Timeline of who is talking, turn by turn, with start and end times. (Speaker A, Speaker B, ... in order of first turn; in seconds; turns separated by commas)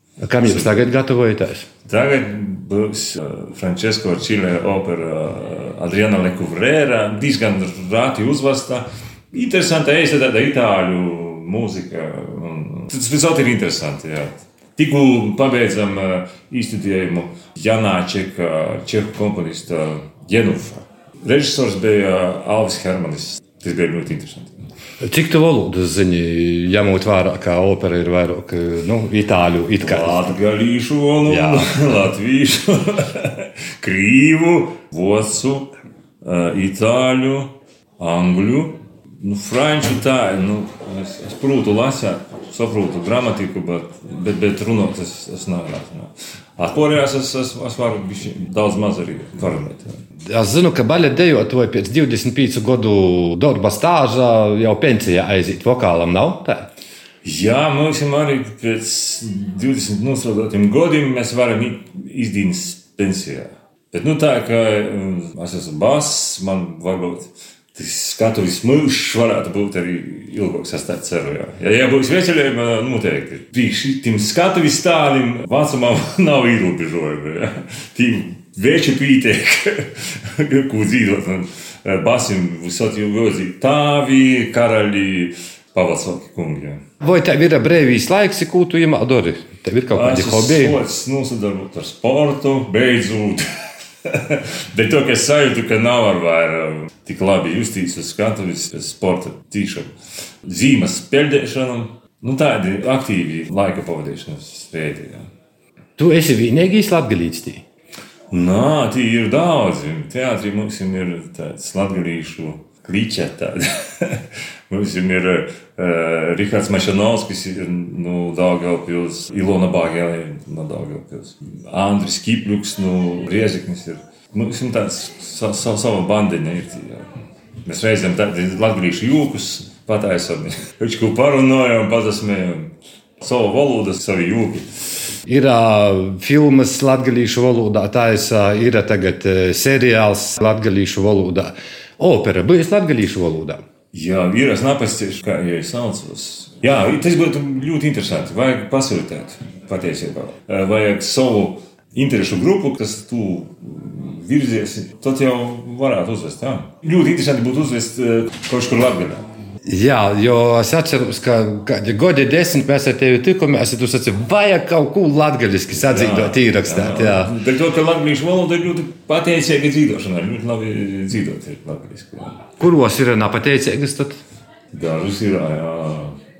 Speaker A: 0.2-1.6, Speaker B: 0.4-0.9, Speaker B: 1.9-24.6, Speaker A: 25.0-30.3, Speaker B: 29.8-50.0, Speaker A: 31.2-31.8, Speaker A: 50.3-56.7, Speaker B: 57.2-86.8, Speaker A: 87.0-90.8, Speaker B: 89.9-93.4, Speaker B: 94.0-99.9, Speaker B: 100.5-105.3, Speaker A: 106.0-107.6, Speaker B: 108.3-134.7, Speaker A: 135.3-143.6, Speaker B: 143.9-159.2, Speaker A: 159.6-167.3, Speaker B: 165.7-172.4, Speaker A: 172.6-174.2, Speaker B: 174.7-176.1